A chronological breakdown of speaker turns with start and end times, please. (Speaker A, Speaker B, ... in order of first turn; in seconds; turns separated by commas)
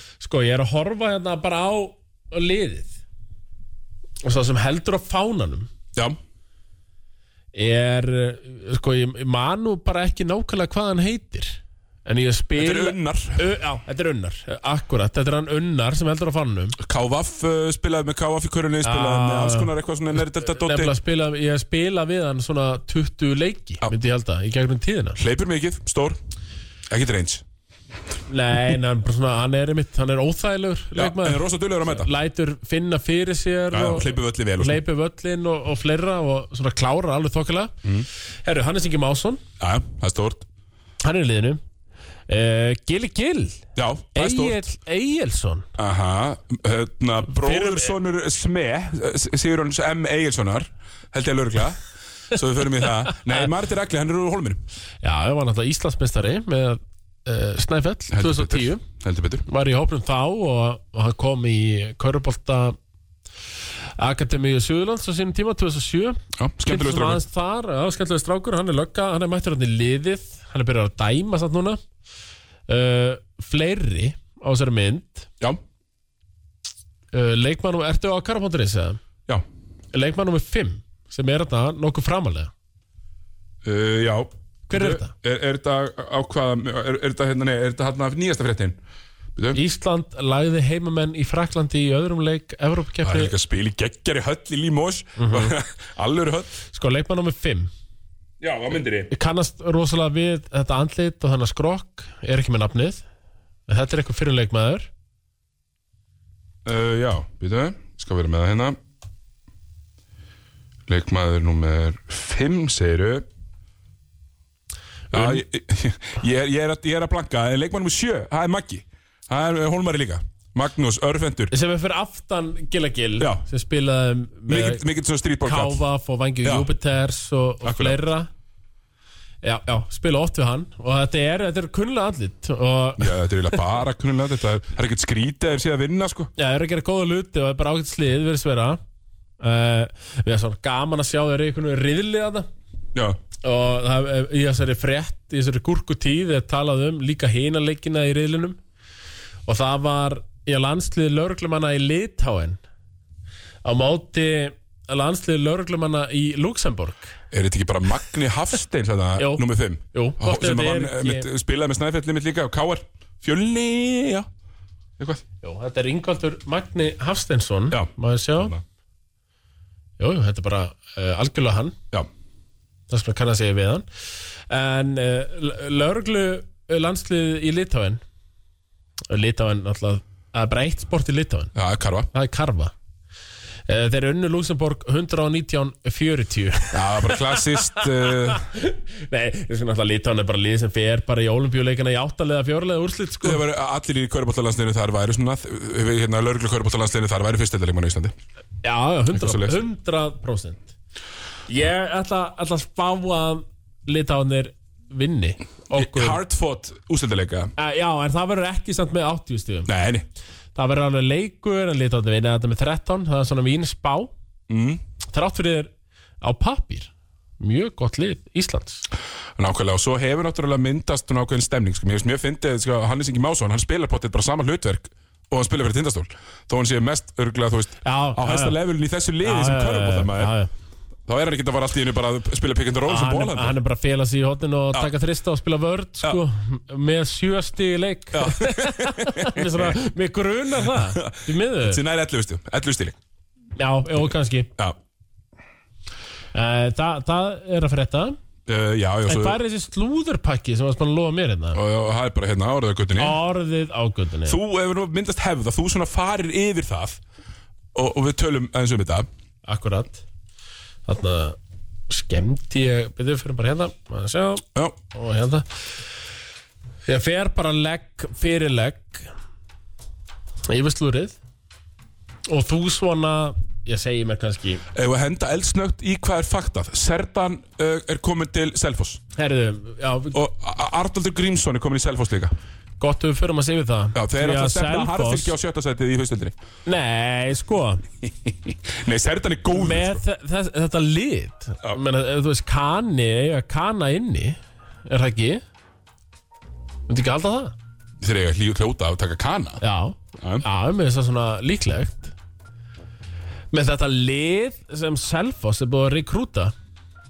Speaker A: 0.2-3.0, Speaker A: 4.2-5.7, Speaker A: 7.5-16.8, Speaker B: 12.6-13.4, Speaker B: 16.8-20.9, Speaker A: 18.8-19.7, Speaker A: 20.3-25.2, Speaker B: 25.2-26.2, Speaker B: 26.9-27.4, Speaker A: 28.3-37.8, Speaker B: 30.9-32.1, Speaker B: 33.7-34.8, Speaker A: 38.4-39.4, Speaker B: 39.6-40.4, Speaker A: 41.0-41.6, Speaker A: 42.3-45.7, Speaker B: 43.8-44.6, Speaker B: 45.8-54.6, Speaker A: 47.3-47.9, Speaker A: 55.0-58.8, Speaker B: 58.1-59.4, Speaker A: 59.5-62.8, Speaker A: 64.0-71.8, Speaker B: 66.4-67.2, Speaker A: 72.7-75.3, Speaker A: 77.1-79.0, Speaker A: 79.9-82.5, Speaker B: 83.6-88.8, Speaker A: 84.7-85.1, Speaker A: 89.5-93.3, Speaker B: 93.0-96.5, Speaker A: 95.2-95.5, Speaker A: 96.7-97.7, Speaker B: 98.4-99.1, Speaker A: 99.1-103.0, Speaker A: 103.7-104.9, Speaker B: 106.6-108.8, Speaker B: 110.9-113.2, Speaker B: 115.1-121.5, Speaker A: 121.5-124.8, Speaker B: 123.2-123.4, Speaker B: 124.5-125.8, Speaker A: 125.4-128.3, Speaker B: 126.4-126.7, Speaker B: 127.6-128.0, Speaker A: 129.4-133.6, Speaker B: 133.0-136.3, Speaker A: 136.4-138.8, Speaker A: 139.4-142.5, Speaker A: 143.4-148.6, Speaker A: 149.4-152.6, Speaker A: 153.6-157.1, Speaker B: 157.3-164.3, Speaker A: 159.2-161.3, Speaker B: 165.0-165.2, Speaker A: 165.4-168.5, Speaker B: 167.7-168.6, Speaker A: 170.0-171.8, Speaker A: 172.9-173.8, Speaker A: 174.5-178.0, Speaker A: 179.1-181.5, Speaker B: 181.5-182.1, Speaker A: 182.1-182.7, Speaker A: 183.7-193.4, Speaker B: 186.7-188.4, Speaker B: 193.2-198.1, Speaker A: 198.6-200.7, Speaker B: 199.1-199.6, Speaker A: 201.5-206.2, Speaker B: 205.7-207.5, Speaker A: 207.6-209.7, Speaker B: 209.7-210.1, Speaker A: 210.5-214.1, Speaker B: 214.5-214.8, Speaker A: 215.1-215.7, Speaker A: 216.2-218.8, Speaker B: 219.3-230.3, Speaker A: 227.8-228.6, Speaker A: 229.2-230.5, Speaker B: 231.1-233.6, Speaker A: 232.8-241.8, Speaker B: 238.1-239.7, Speaker B: 240.7-243.0, Speaker A: 243.6-244.5, Speaker A: 246.3-248.2, Speaker B: 248.4-249.4, Speaker A: 249.1-251.6, Speaker B: 251.5-253.2, Speaker A: 252.9-254.4, Speaker B: 254.2-257.0, Speaker B: 257.7-259.1, Speaker A: 259.4-260.0, Speaker A: 260.9-261.4, Speaker A: 261.9-265.5, Speaker A: 266.9-269.1, Speaker A: 270.5-271.2, Speaker A: 272.3-274.6, Speaker B: 274.7-279.0, Speaker A: 279.1-280.2, Speaker B: 280.1-282.3, Speaker A: 282.8-285.3, Speaker B: 283.9-286.3, Speaker A: 286.6-287.8, Speaker B: 288.1-290.0, Speaker A: 289.5-295.4, Speaker A: 296.9-297.5, Speaker B: 298.0-299.6, Speaker A: 299.6-302.1, Speaker B: 300.2-300.4, Speaker A: 303.5-306.5